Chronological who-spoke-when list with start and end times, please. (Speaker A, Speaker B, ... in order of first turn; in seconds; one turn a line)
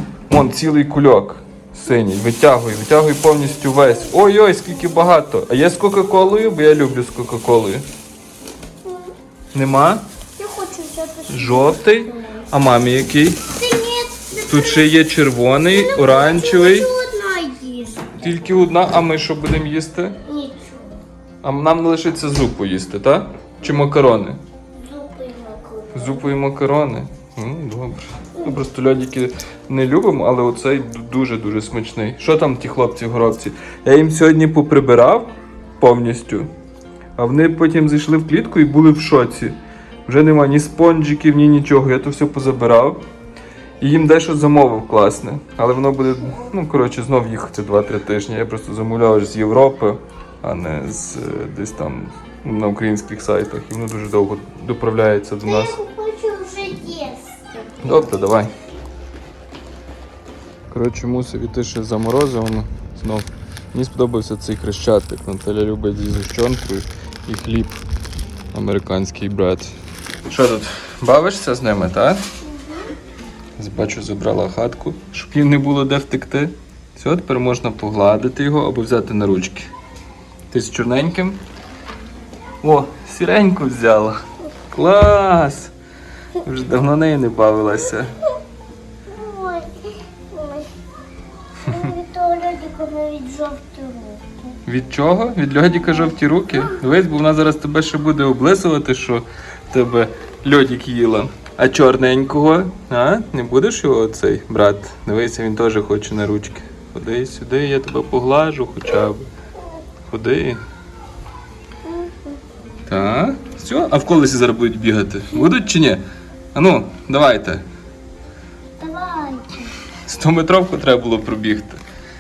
Speaker A: 0.3-7.8
Speaker B: 8.8-9.1
Speaker A: 9.5-10.1
Speaker B: 10.4-12.5
Speaker A: 11.3-13.4
Speaker B: 13.5-15.0
Speaker A: 14.4-16.9
Speaker B: 15.6-18.2
Speaker A: 18.2-20.2
Speaker B: 20.3-21.0
Speaker A: 21.4-24.4
Speaker B: 24.7-26.3
Speaker A: 25.9-36.5
Speaker A: 37.2-43.0
Speaker A: 43.8-55.8
Speaker B: 55.4-57.7
Speaker A: 57.8-58.5
Speaker A: 60.7-67.8
Speaker A: 68.5-69.7
Speaker A: 70.3-72.2
Speaker B: 72.5-72.9
Speaker A: 73.6-79.7
Speaker A: 80.5-81.4
Speaker A: 82.6-85.7
Speaker A: 86.4-88.2
Speaker B: 89.1-90.7
Speaker B: 91.6-94.6
Speaker A: 94.7-109.3
Speaker A: 110.1-110.6
Speaker B: 111.8-112.4
Speaker A: 112.9-116.0
Speaker A: 116.5-117.6
Speaker B: 118.8-119.7
Speaker A: 120.0-121.8